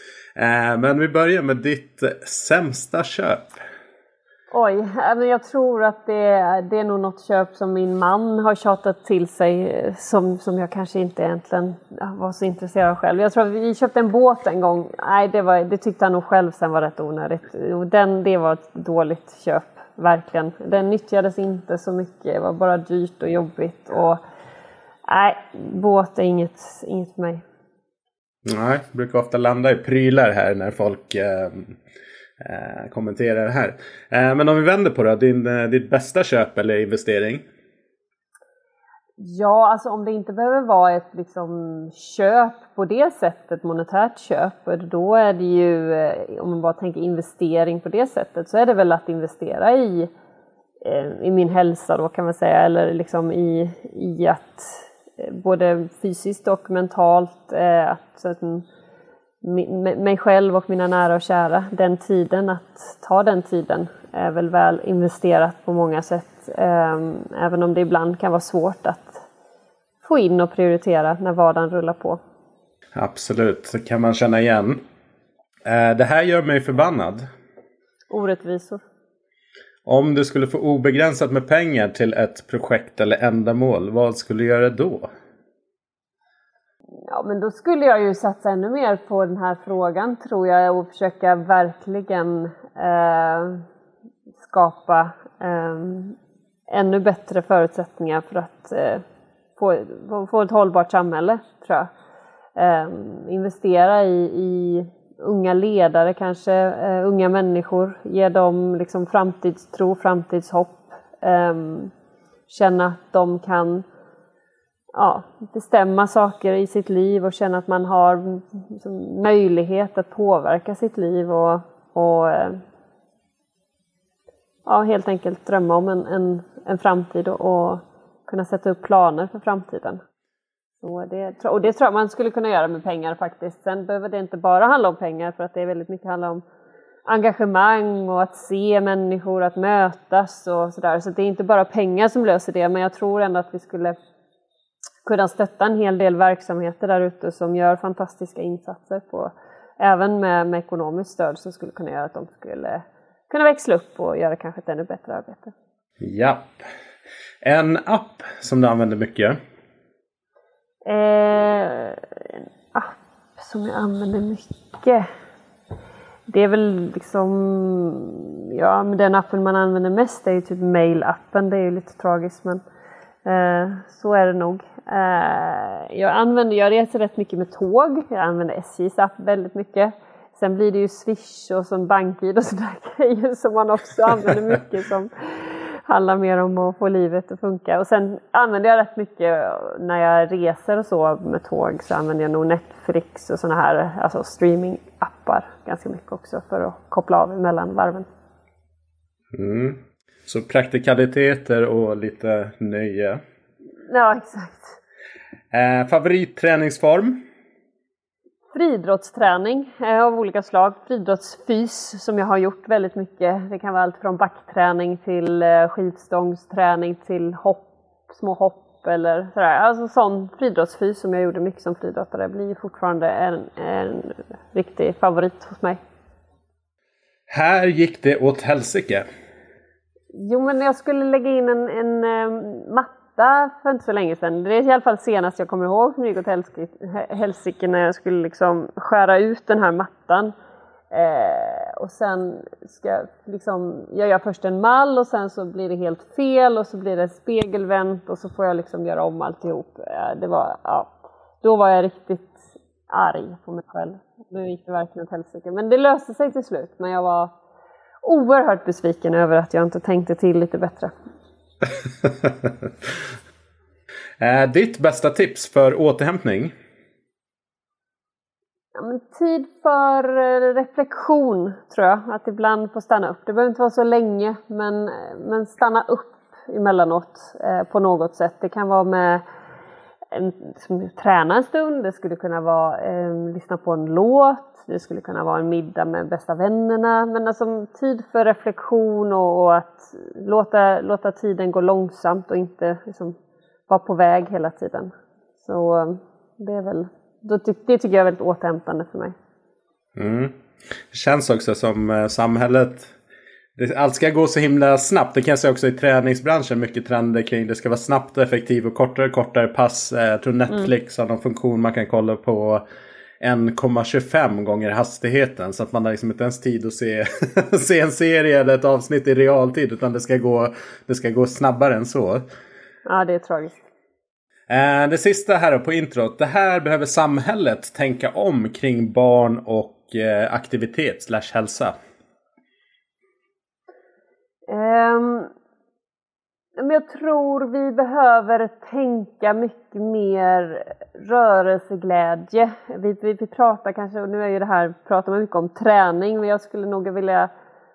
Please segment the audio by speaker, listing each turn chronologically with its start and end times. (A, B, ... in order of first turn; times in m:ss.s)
0:00.4-0:03.6 A
0:04.5-0:24.2 B
0:25.1-0:27.4 B
0:28.4-0:31.8 A
0:32.4-0:37.4 A
0:39.2-0:50.1 B
0:50.8-0:58.6 B
0:59.4-1:09.2 B
1:10.0-1:12.2 B
1:12.9-1:14.8 A
1:15.6-1:17.2 A
1:18.1-1:18.8 B
1:19.8-1:25.1 A
1:27.1-1:33.6 B
1:34.4-1:36.2 B
1:36.7-1:39.0 B
1:39.6-1:41.9 B
1:42.6-1:51.9 B
1:52.5-1:53.8 B
1:54.9-2:02.6 B
2:04.6-2:10.0 B
2:10.8-2:16.4 B
2:17.0-2:24.0 B
2:25.0-2:35.5 B
2:36.0-2:36.5 A
2:37.4-2:39.4 A
2:40.8-2:45.1 B
2:46.3-2:52.6 B
2:53.2-3:18.1 B
3:19.3-3:23.2 A
3:23.9-3:24.8 B
3:25.5-3:27.2 A
3:28.5-3:45.8 B
3:47.3-3:49.0 A
3:50.1-4:00.3 B
4:00.9-4:17.3 B
4:18.0-4:20.9 B
4:22.0-4:22.9 A
4:24.2-4:26.5 A
4:28.7-4:39.2 B
4:40.1-4:53.2 B
4:53.7-4:54.9 B
4:55.4-4:59.1 B
5:00.0-5:00.3 A
5:00.9-5:02.9 A
5:03.6-5:12.6 A
5:13.2-5:22.2 A
5:22.8-5:23.6 B
5:24.5-5:31.7 A
5:34.5-5:35.3 B
5:36.6-5:47.3 B